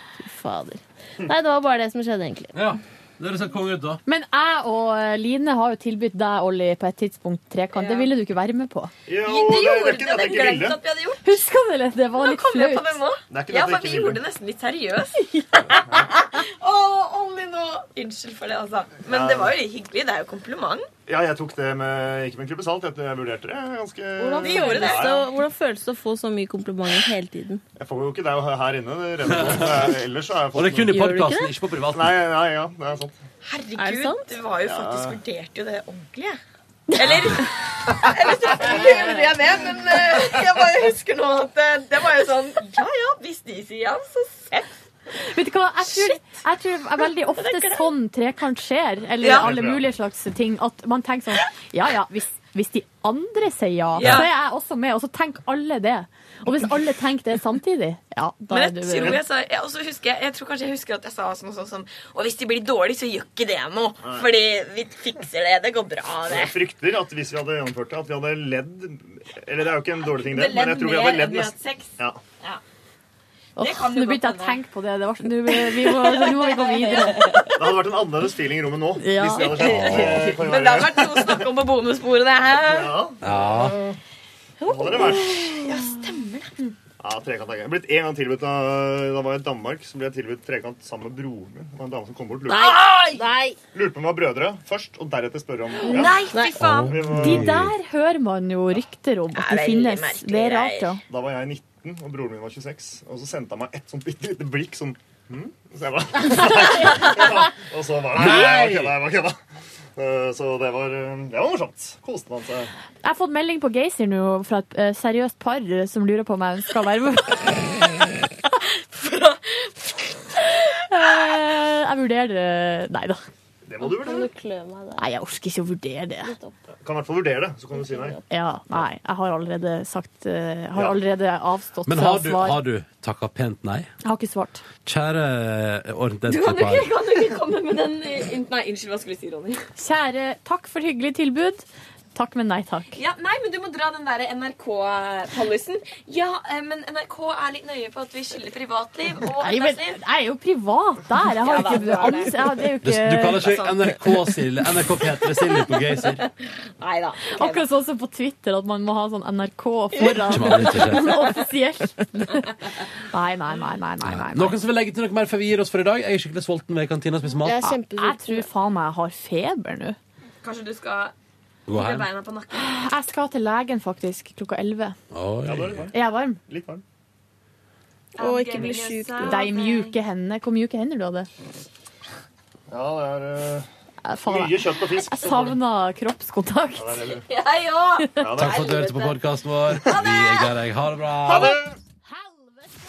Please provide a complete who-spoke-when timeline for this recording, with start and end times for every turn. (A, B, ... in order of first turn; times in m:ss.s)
0:00.2-0:02.6 A
0:02.5-0:04.0 B
0:04.0-0:08.9 C
0:07.7-0:08.1 D
0:09.1-0:10.8 E
0:09.2-0:11.3 D
0:11.2-0:13.0 C
0:12.2-0:20.9 D
0:13.3-0:14.2 E
0:15.8-0:16.1 E
0:19.0-0:19.6 E
0:21.0-0:25.3 E
0:24.2-0:27.6 A
0:24.4-0:25.1 D
0:27.8-0:31.0 E
0:29.2-0:30.0 B
0:30.5-0:32.2 B
0:30.9-0:31.5 A
0:31.9-0:33.2 E
0:33.4-0:36.4 D
0:33.8-0:34.3 A
0:34.6-0:35.2 E
0:36.9-0:44.8 D
0:45.3-0:59.2 C
0:45.9-0:46.2 D
0:47.0-0:47.9 D
0:49.2-0:49.5 D
0:49.3-0:49.9 E
0:54.0-0:54.3 D
0:54.0-0:54.3 E
0:58.5-1:06.6 D
1:04.0-1:04.3 E
1:06.3-1:12.2 E
1:10.1-1:12.6 D
1:13.6-1:17.5 C
1:13.6-1:14.6 D
1:15.5-1:17.6 D
1:17.5-1:21.5 E
1:19.0-1:19.6 C
1:19.4-1:23.0 D
1:19.6-1:20.4 B
1:22.5-1:23.8 E
1:23.2-1:23.8 B
1:24.6-1:26.7 D
1:24.6-1:25.4 E
1:27.0-1:32.8 E
1:32.5-1:33.6 A
1:32.8-1:33.2 D
1:33.7-1:36.2 E
1:35.8-1:37.0 D
1:36.3-1:36.6 A
1:36.6-1:37.7 B
1:36.8-1:37.6 E
1:37.1-1:41.0 C
1:39.4-1:40.9 D
1:41.1-1:49.4 E
1:48.1-1:49.0 B
1:50.0-1:52.7 E
1:53.0-1:57.6 C
1:58.6-2:00.5 D
2:00.9-2:03.2 C
2:03.6-2:04.3 E
2:03.8-2:05.1 A
2:05.0-2:06.3 C
2:06.2-2:06.5 A
2:06.8-2:08.2 E
2:08.3-2:12.6 C
2:11.8-2:13.9 B
2:14.0-2:14.6 C
2:14.8-2:16.9 B
2:16.3-2:19.7 D
2:19.8-2:21.6 C
2:22.1-2:22.9 C
2:22.9-2:30.0 D
2:29.3-2:33.5 C
2:31.3-2:32.7 D
2:32.8-2:36.2 B
2:33.4-2:33.8 D
2:36.1-2:37.6 D
2:37.3-2:44.6 C
2:40.0-2:40.2 D
2:40.1-2:41.3 B
2:44.0-2:47.7 B
2:47.4-2:48.5 A
2:47.6-2:50.0 C
2:50.4-2:51.1 D
2:51.7-2:52.1 B
2:51.7-2:52.9 D
2:52.5-2:55.0 C
2:55.1-2:55.8 B
2:55.4-2:56.8 E
2:55.9-2:56.4 C
2:58.1-3:00.0 D
2:58.2-2:59.5 A
2:59.2-3:01.3 C
3:02.7-3:03.7 E
3:04.0-3:07.0 C
3:04.3-3:05.6 E
3:06.8-3:07.3 E
3:07.3-3:09.2 D
3:08.2-3:08.6 E
3:08.4-3:11.6 B
3:09.8-3:10.5 D
3:11.3-3:11.8 E
3:11.3-3:11.6 D
3:12.1-3:12.6 C